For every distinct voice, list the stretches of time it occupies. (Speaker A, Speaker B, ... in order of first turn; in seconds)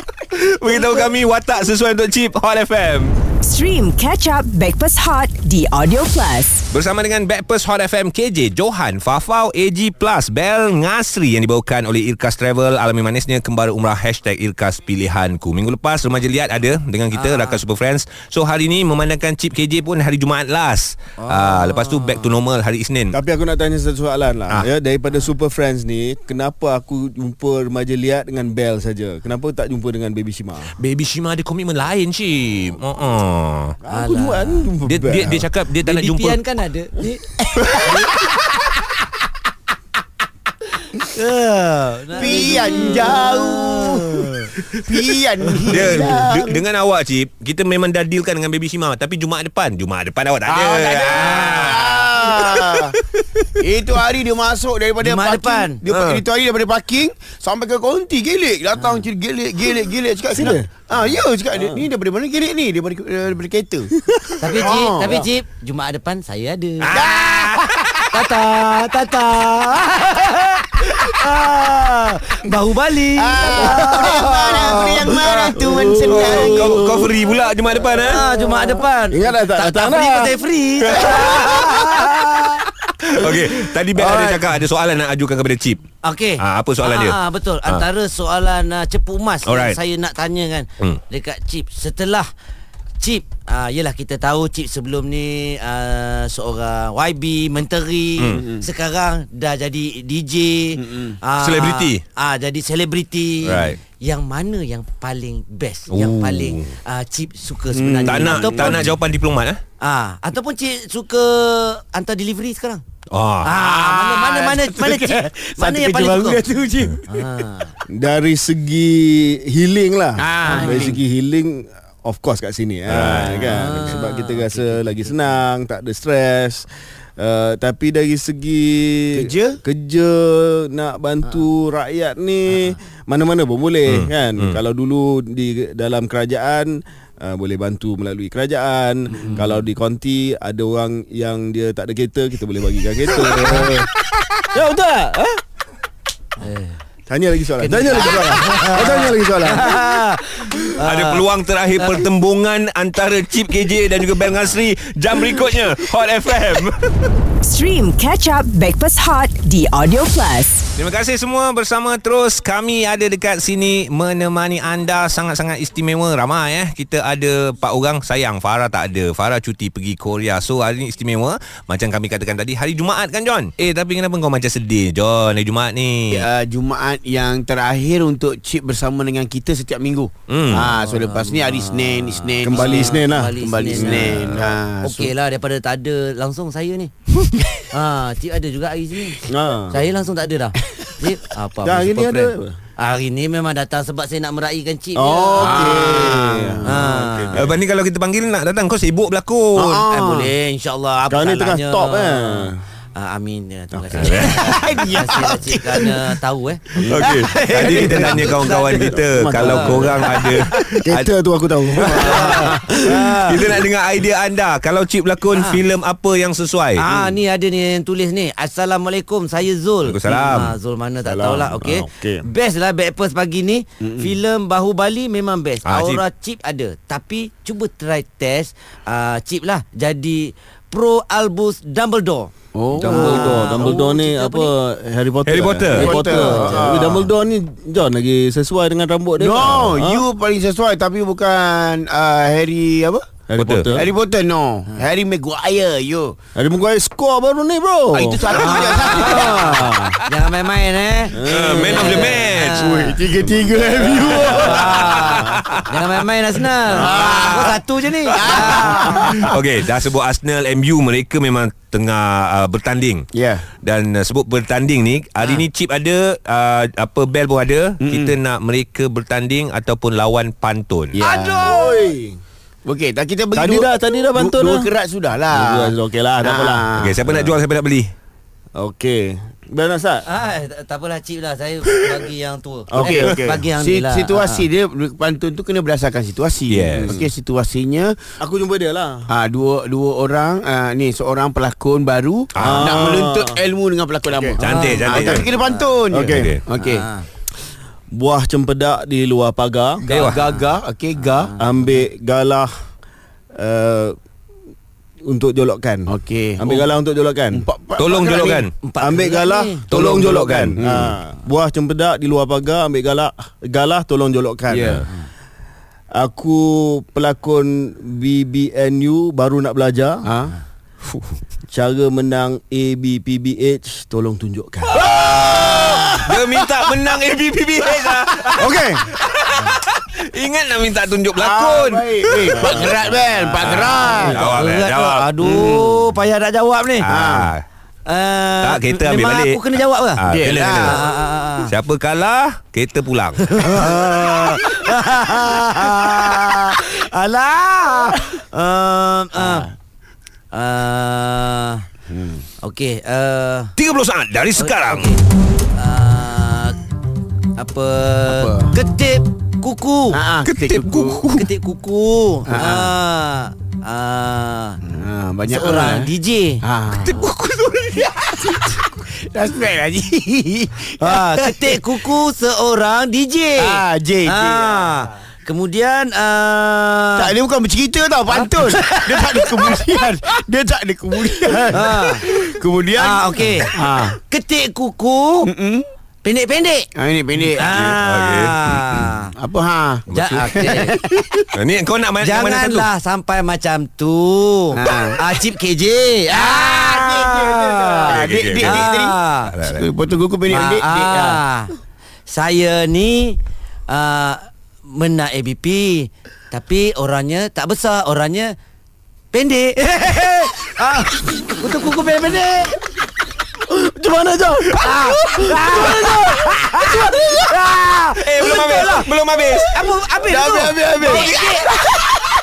Speaker A: 0.3-3.2, 6.7-23.2, 30.8-33.8, 34.8-36.4, 37.6-38.1, 45.7-53.5, 55.9-56.2, 66.8-68.1, 76.1-78.2, 80.9-82.5, 83.0-85.8, 86.4-87.8, 89.5-89.8, 98.2-98.5, 101.4-102.0, 103.4-103.8, 105.9-106.7, 108.0-109.6, 113.1-113.6, 122.9-123.8, 133.9-134.6, 143.1-143.8, 150.8-157.1, 160.8-176.3, 180.3-180.8, 197.3-199.8, 204.0-204.6, 206.9-211.1, 211.8-212.5, 213.2-216.9, 219.8-220.6, 225.7-226.0, 235.2-236.0, 243.4-243.7, 251.3-252.9, 253.8-255.7, 256.9-257.6, 258.2-263.1, 263.6-271.0, 276.8-277.9, 286.5-286.9, 292.4-292.7, 294.4-295.3, 296.0-296.4, 299.9-300.2, 307.8-308.5, 309.7-310.9, 324.7-335.1, 336.8-337.4, 338.4-339.4, 340.0-340.9, 341.5-343.4, 353.6-355.0, 360.2-361.3, 366.7-368.7, 387.4-388.9, 389.9-390.4, 391.4-392.7, 397.9-398.7, 399.2-399.7, 414.7-415.2, 418.0-419.5, 420.9-421.2
Speaker B: 3.4-6.7, 157.4-160.7
Speaker C: 17.1-17.6, 21.2-22.3, 33.9-34.7, 35.8-38.3, 40.9-44.5, 51.2-51.7, 55.0-55.8, 64.4-67.0, 68.1-74.9, 78.0-82.5, 86.0-92.3, 93.0-108.9, 109.8-112.8, 113.4-116.5, 117.0-117.8, 120.4-120.9, 123.3-125.4, 143.4-143.7, 146.4-146.8, 147.6-152.1, 180.7-186.9, 187.7-196.1, 196.6-197.4, 199.9-210.1, 211.8-213.5, 215.3-215.6, 216.8-232.3, 232.8-234.5, 235.9-236.7, 248.3-252.9, 254.2-259.2, 265.2-265.4, 271.0-271.9, 280.1-284.5, 294.4-295.8, 296.6-297.1, 300.3-301.7, 308.6-309.7, 334.0-336.9, 337.9-340.0, 340.6-341.5, 343.2-349.5, 350.3-351.6, 352.4-353.5, 354.4-355.0, 355.5-356.6, 357.4-360.0, 361.1-364.6, 365.3-366.4, 370.8-377.1, 378.1-379.6, 381.5-382.0, 382.8-383.5, 384.0-385.3, 386.0-386.7, 387.4-389.1, 389.9-391.0, 392.0-399.3, 400.3-401.5, 402.1-403.2, 403.7-408.3, 409.1-412.6, 414.6-418.9, 419.5-421.5
Speaker D: 23.1-30.8, 33.8-35.5, 60.3-60.7, 61.5-61.8, 64.0-64.7, 73.5-77.2, 78.2-80.4, 83.2-84.5, 117.9-126.7, 127.2-143.9, 144.5-145.4, 147.1-149.9, 182.4-184.5, 189.3-189.8, 191.6-192.6, 194.9-197.5, 201.1-202.6, 203.7-204.4, 206.8-213.6, 221.1-222.3, 232.8-240.0, 243.3-243.9, 246.4-250.0, 251.1-252.2, 253.0-255.3, 259.0-259.3, 271.4-272.2, 273.4-274.7, 275.3-277.4, 278.6-280.1, 282.7-283.3, 286.8-287.1, 288.2-289.1, 292.4-293.4, 294.1-294.4, 294.9-295.3, 295.9-296.3, 297.9-299.8, 301.4-302.5, 303.4-304.0, 305.1-307.4, 308.8-314.9, 315.9-320.1, 321.5-326.6, 328.3-328.9, 332.4-332.8, 413.5-417.0
Speaker E: 42.2-44.2, 44.7-46.6, 50.5-53.0, 53.6-63.9, 64.5-65.3, 66.9-67.5, 73.2-76.9, 98.3-98.7, 100.8-101.2, 107.7-108.9, 113.6-117.0, 120.2-121.0, 129.1-129.6, 176.1-185.1, 195.4-197.5, 199.6-200.3, 204.2-206.0, 206.8-208.2, 223.8-224.2, 232.5-233.8, 235.7-237.1, 239.2-243.1, 243.7-246.2, 247.9-249.7, 251.9-255.2, 256.7-257.6, 258.1-259.3, 263.1-263.5, 267.8-268.2, 270.9-271.6, 272.6-277.0, 282.8-288.0, 289.1-296.9, 299.8-301.3, 305.9-306.7, 307.3-308.5, 310.6-311.0, 314.5-314.9, 320.0-320.4, 325.0-325.6, 331.2-334.3, 335.2-335.9, 336.9-337.3, 340.1-340.8, 349.2-349.5, 351.9-352.2, 358.1-358.6, 359.9-361.1, 362.3-362.8, 364.6-367.1, 368.3-371.7, 373.4-374.6, 377.0-384.0, 385.2-385.7, 386.8-387.5, 389.2-391.2, 394.5-395.1, 396.1-401.2, 420.1-421.2